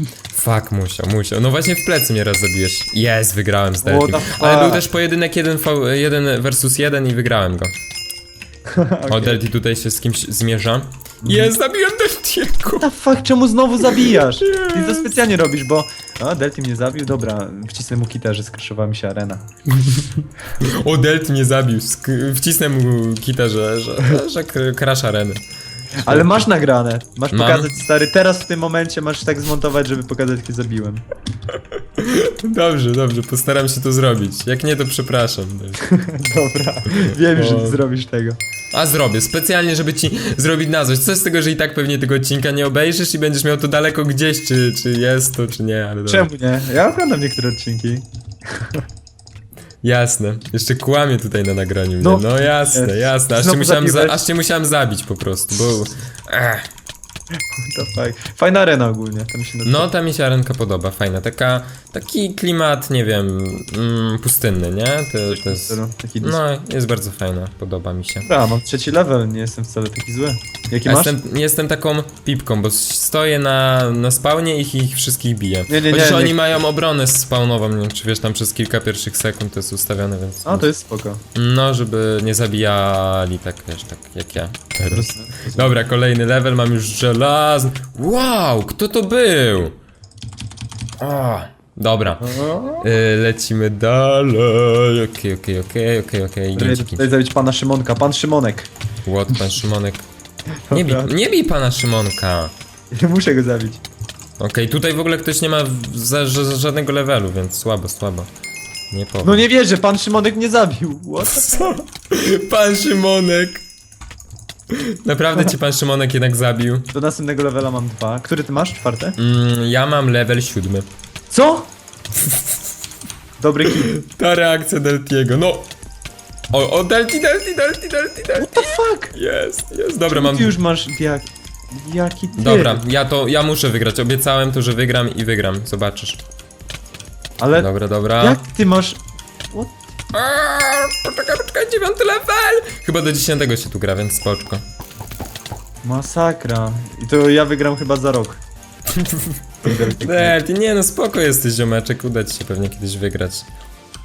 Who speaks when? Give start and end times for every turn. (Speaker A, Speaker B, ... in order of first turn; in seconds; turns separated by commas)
Speaker A: 0.3-7.8, Speaker B: 3.9-4.8, Speaker B: 8.7-9.4, Speaker A: 9.1-12.9, Speaker B: 11.2-11.5, Speaker B: 12.8-19.4, Speaker A: 13.8-15.1, Speaker A: 19.8-25.4, Speaker A: 26.0-26.5, Speaker B: 26.0-31.0, Speaker A: 27.3-27.8, Speaker A: 31.8-35.8, Speaker B: 35.8-38.4, Speaker A: 36.9-37.8, Speaker A: 38.7-46.3, Speaker B: 46.1-48.8, Speaker A: 49.8-56.7, Speaker B: 52.0-54.2, Speaker B: 57.5-59.9, Speaker A: 59.6-68.3, Speaker B: 65.3-66.4, Speaker B: 68.2-71.2, Speaker A: 70.9-80.7, Speaker B: 75.7-76.6, Speaker B: 80.5-81.2, Speaker A: 81.3-89.8, Speaker B: 84.9-85.7, Speaker A: 91.0-92.3, Speaker B: 92.2-92.9, Speaker A: 92.8-97.0, Speaker B: 96.5-98.7, Speaker A: 99.0-100.1, Speaker B: 100.7-101.1, Speaker A: 100.7-102.5, Speaker B: 102.9-103.8, Speaker A: 104.4-108.3, Speaker A: 108.9-109.5, Speaker B: 109.2-111.8, Speaker A: 111.3-113.6, Speaker A: 114.7-116.9, Speaker B: 116.9-119.2, Speaker A: 119.2-120.9, Speaker B: 121.3-121.7, Speaker B: 123.4-123.9, Speaker A: 123.8-125.7, Speaker A: 126.5-130.5, Speaker B: 128.4-129.1, Speaker B: 130.1-132.8, Speaker A: 132.4-136.2, Speaker B: 137.4-137.7, Speaker A: 137.6-138.4, Speaker B: 138.2-139.0, Speaker B: 139.5-139.8, Speaker A: 140.1-144.6, Speaker B: 145.8-148.4, Speaker A: 148.9-153.5, Speaker B: 149.6-150.4